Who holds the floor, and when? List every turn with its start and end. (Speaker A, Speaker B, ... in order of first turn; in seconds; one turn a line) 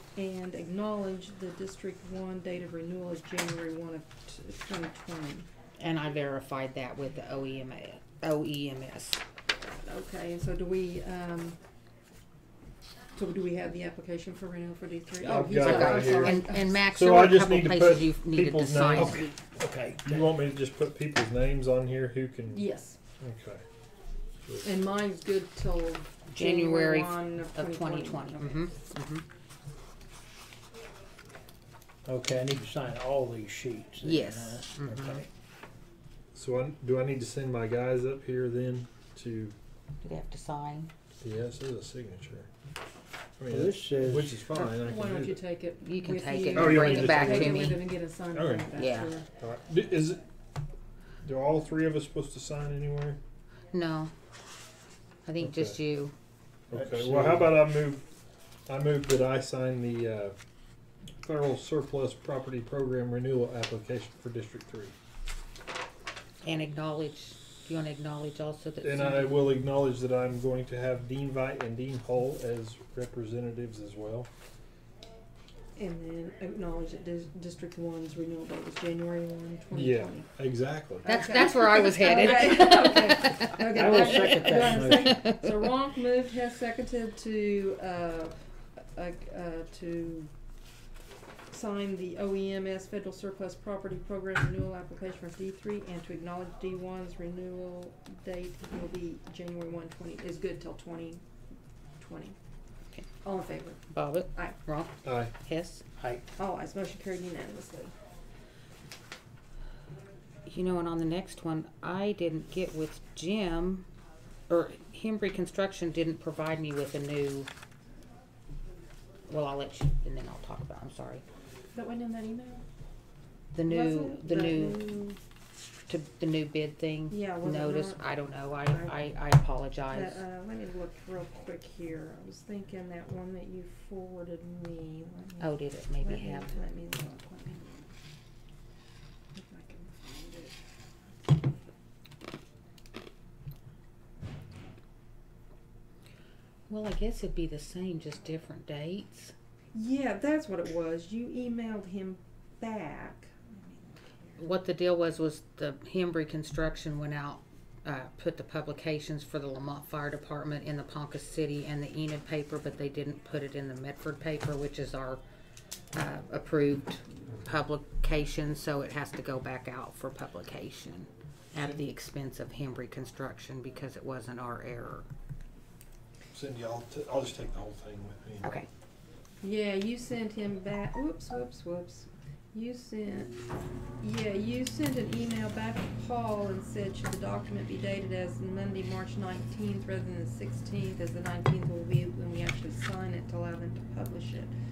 Speaker A: 0.2-5.5
Speaker B: 5.8-9.2
Speaker A: 9.7-11.6
Speaker A: 13.2-16.8
Speaker C: 15.2-19.3
Speaker B: 15.6-19.4
Speaker D: 18.9-20.3
Speaker C: 20.1-22.7
Speaker A: 22.5-23.0
Speaker C: 23.2-23.6
Speaker C: 24.5-24.7
Speaker A: 24.6-28.8
Speaker B: 26.3-29.2
Speaker D: 32.1-35.3
Speaker B: 34.0-35.2
Speaker C: 36.3-39.5
Speaker B: 40.0-40.9
Speaker C: 41.2-42.5
Speaker C: 43.4-45.4
Speaker D: 43.5-44.4
Speaker A: 44.5-49.3
Speaker B: 45.8-47.9
Speaker C: 46.5-48.7
Speaker B: 48.8-49.1
Speaker C: 49.3-50.2
Speaker C: 51.2-53.2
Speaker B: 53.7-54.1
Speaker B: 55.3-56.1
Speaker C: 55.4-55.8
Speaker D: 56.7-57.5
Speaker C: 56.7-58.0
Speaker C: 58.7-60.4
Speaker C: 61.2-65.0
Speaker B: 66.4-69.5
Speaker C: 68.8-74.3
Speaker A: 75.8-80.3
Speaker C: 79.7-81.1
Speaker A: 81.0-88.3
Speaker B: 81.1-85.5
Speaker D: 83.5-85.2
Speaker A: 89.0-90.3
Speaker A: 91.5-101.2
Speaker A: 102.0-102.4
Speaker A: 103.2-103.8
Speaker B: 103.9-105.8
Speaker C: 105.0-105.3
Speaker D: 106.0-106.2
Speaker A: 106.4-107.9
Speaker B: 110.5-113.9
Speaker B: 114.5-117.5
Speaker B: 119.3-121.2
Speaker A: 121.7-122.6
Speaker B: 123.5-125.0
Speaker A: 123.7-125.2
Speaker B: 125.9-130.2
Speaker A: 127.1-128.1
Speaker A: 128.7-129.0
Speaker A: 129.9-137.9
Speaker B: 135.4-136.5
Speaker A: 139.3-141.7
Speaker B: 146.7-149.3
Speaker A: 149.7-154.1
Speaker B: 154.4-165.2
Speaker B: 165.9-175.1
Speaker C: 176.3-178.5
Speaker B: 178.4-178.7
Speaker A: 179.4-183.3
Speaker A: 184.0-194.5